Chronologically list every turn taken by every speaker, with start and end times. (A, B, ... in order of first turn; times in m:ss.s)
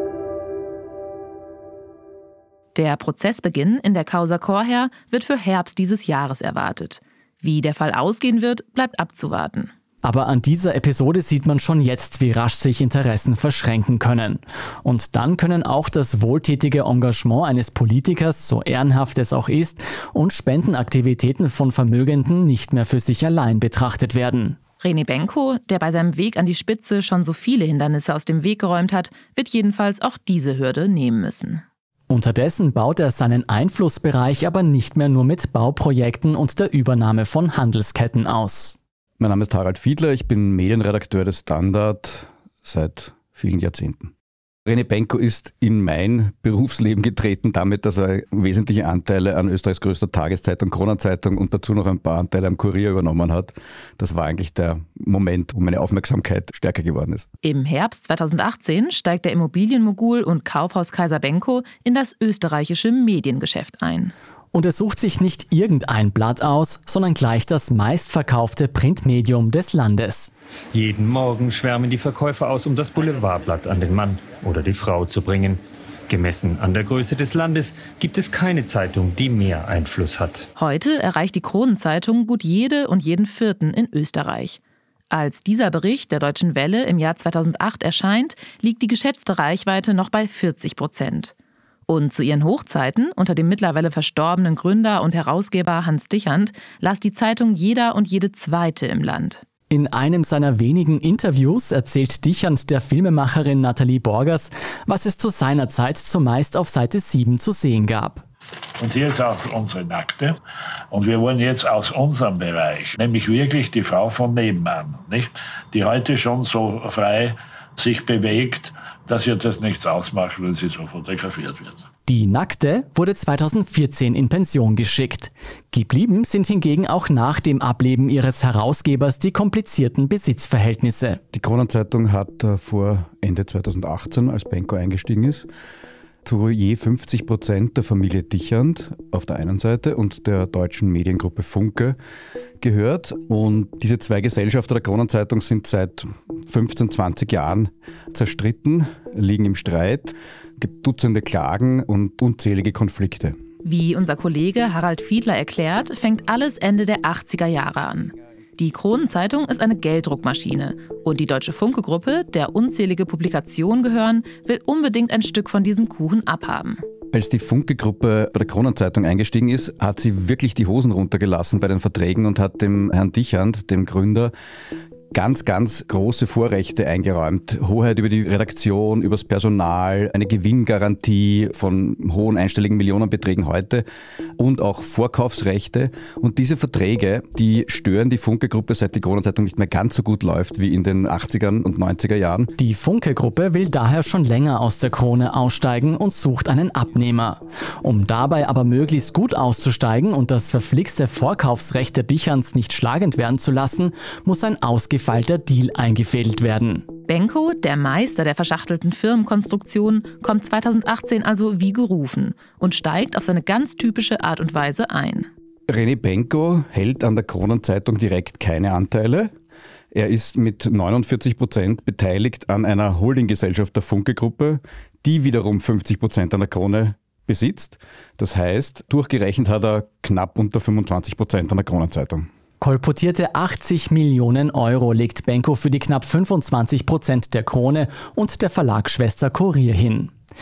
0:02.7-0:09.7 A
0:10.0-0:24.6 B
0:24.8-0:31.6 A
0:32.1-0:38.8 B
0:39.2-0:44.1 C
0:44.6-0:57.3 C
0:57.4-1:04.1 A
1:04.5-1:10.3 B
1:10.7-1:20.5 D
1:20.6-1:24.6 A
1:25.1-1:31.3 A
1:31.9-1:39.4 A
1:39.7-1:48.2 B
1:48.8-1:50.4 E
1:50.9-2:01.8 E
2:02.1-2:11.2 B
2:11.3-2:15.5 C
2:16.2-2:22.0 C
2:22.6-2:33.4 C
2:33.6-2:46.8 A
2:47.1-2:54.3 C
2:55.1-3:03.8 C
3:04.4-3:12.5 C
3:12.6-3:26.9 B
3:27.1-3:35.3 A
3:35.7-3:39.3 C
3:39.9-3:52.3 C
3:52.6-4:00.1 B